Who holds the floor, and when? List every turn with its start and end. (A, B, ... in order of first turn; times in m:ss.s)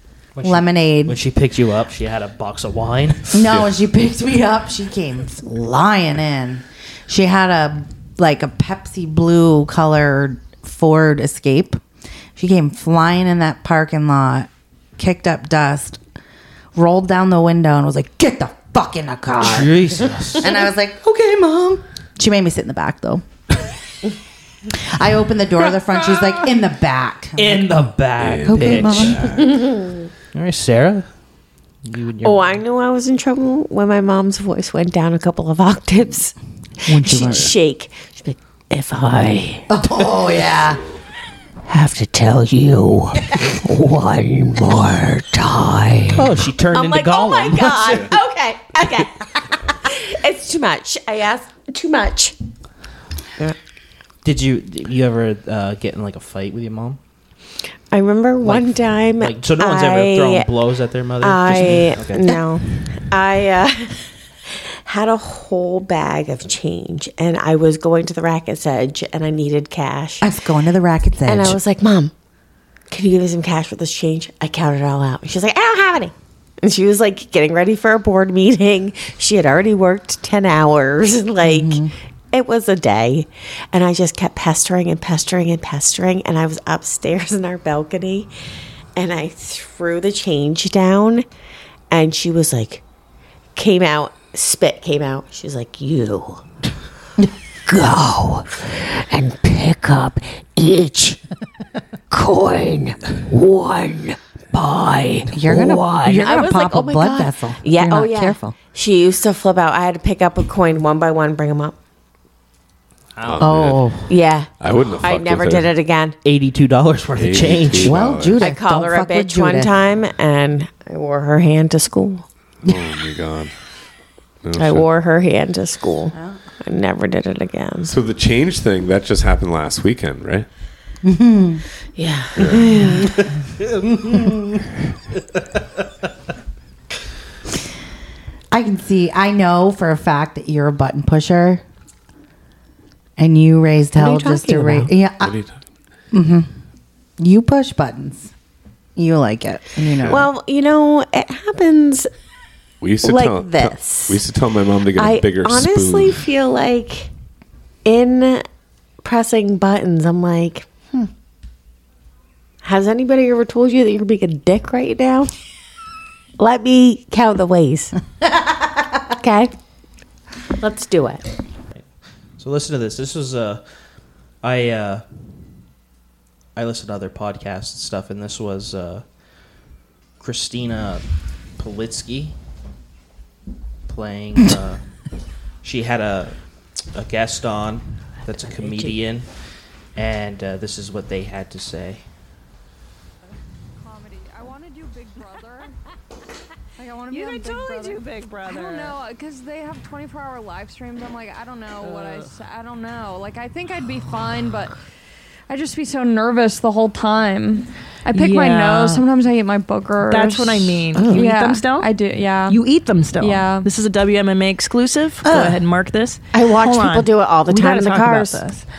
0:00.4-0:03.7 A
0:00.4-0:01.2 B
0:03.3-0:11.8 B
0:12.4-0:16.0 B
0:16.8-0:23.2 B
0:19.4-0:20.6 A
0:24.7-0:27.9 B
0:27.4-0:29.4 A
0:28.2-0:29.8 C
0:28.5-0:29.5 B
0:29.5-0:29.9 D
0:30.3-0:31.1 A
0:31.8-0:32.6 A
0:32.2-0:39.7 D
0:36.9-0:37.5 B
0:39.7-0:40.8 B
0:41.7-0:52.4 D
0:46.1-0:48.2 A
0:54.2-0:57.0 A
0:57.9-1:00.5 D
0:58.4-1:02.3 A
1:01.2-1:04.0 D
1:04.5-1:10.3 D
1:10.2-1:11.6 B
1:11.2-1:12.1 D
1:12.9-1:28.3 D
1:21.4-1:21.9 B
1:29.0-1:31.2 D
1:31.9-1:32.8 D
1:33.6-1:36.4 D
1:37.7-1:41.2 D
1:42.1-1:51.8 D
1:45.3-1:48.6 B
1:53.2-1:53.5 A
1:53.2-1:54.0 C
1:53.4-1:54.1 B
1:54.1-1:56.2 D
1:54.6-1:55.7 C
1:56.2-1:58.0 A
1:57.2-1:58.4 C
1:57.8-1:59.7 B
1:58.4-2:02.2 D
2:02.6-2:03.5 C
2:04.4-2:04.9 C
2:04.6-2:07.9 D
2:07.8-2:10.5 C
2:11.0-2:11.6 B
2:12.0-2:13.2 D
2:12.4-2:12.8 C
2:13.0-2:14.7 A
2:18.5-2:21.6 B
2:23.2-2:25.3 B
2:24.0-2:24.9 D
2:25.2-2:25.6 C
2:26.1-2:26.5 B
2:27.2-2:28.3 B
2:29.0-2:30.3 B
2:30.0-2:30.3 C
2:30.1-2:32.1 D
2:32.8-2:36.2 C
2:33.0-2:34.2 D
2:35.0-2:37.1 D
2:37.8-2:38.4 D
2:39.0-2:40.7 D
2:42.6-2:45.3 D
2:46.4-2:48.0 D
2:49.2-2:49.5 D
2:50.6-2:51.2 D
2:52.4-2:53.6 A
2:54.4-2:55.0 A
2:56.6-2:59.0 A
3:00.2-3:01.0 A
3:01.6-3:02.4 A
3:03.9-3:04.8 A
3:05.6-3:06.4 A
3:06.9-3:09.3 A
3:08.6-3:08.9 D
3:10.0-3:12.0 A
3:13.8-3:15.7 E
3:16.8-3:24.8 E
3:17.1-3:19.0 F
3:21.8-3:22.3 F
3:25.5-3:32.6 E
3:28.1-3:29.0 F
3:30.1-3:31.9 F
3:31.0-3:31.3 D
3:32.5-3:38.6 F
3:33.2-3:33.7 E
3:35.3-3:35.6 B
3:36.3-3:38.5 D